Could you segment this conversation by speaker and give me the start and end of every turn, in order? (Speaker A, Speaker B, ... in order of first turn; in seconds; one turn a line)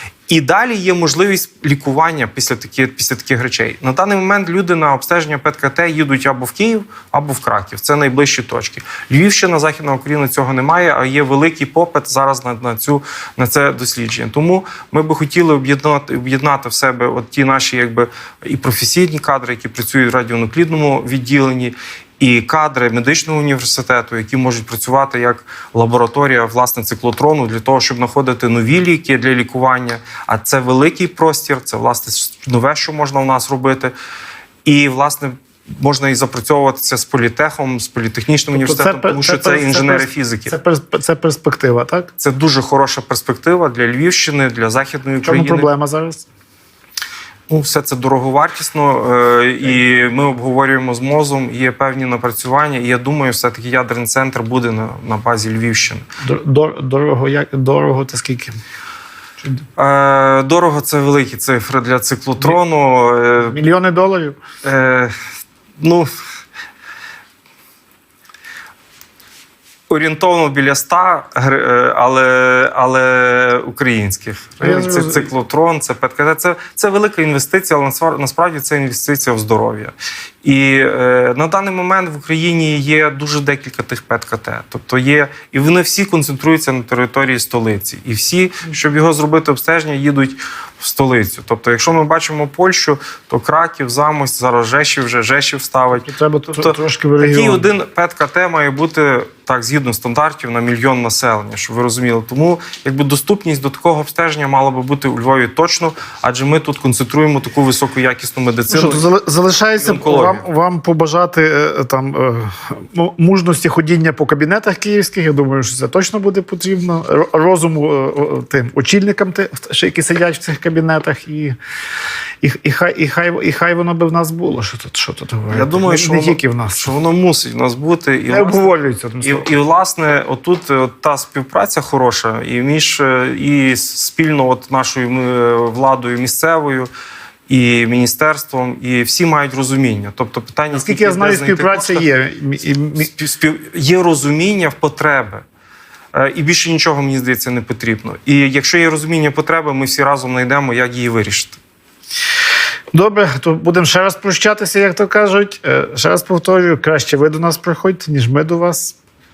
Speaker A: 0.3-33.9
Speaker A: 34.6-40.5
Speaker B: 38.5-42.1
Speaker A: 42.2-45.7
Speaker B: 45.2-46.2
Speaker A: 47.5-56.1
Speaker B: 56.2-58.6
Speaker A: 59.8-63.6
Speaker B: 63.4-64.4
Speaker A: 64.6-65.1
Speaker A: 65.8-66.1
Speaker A: 69.9-109.1
Speaker B: 74.6-75.3
Speaker B: 95.9-97.7
Speaker B: 108.7-121.6
Speaker A: 109.8-110.5
Speaker B: 122.4-126.9
Speaker A: 125.5-136.9
Speaker B: 128.3-129.5
Speaker A: 137.5-142.0
Speaker B: 140.7-143.1
Speaker A: 143.0-145.4
Speaker A: 146.1-151.6
Speaker B: 152.9-158.9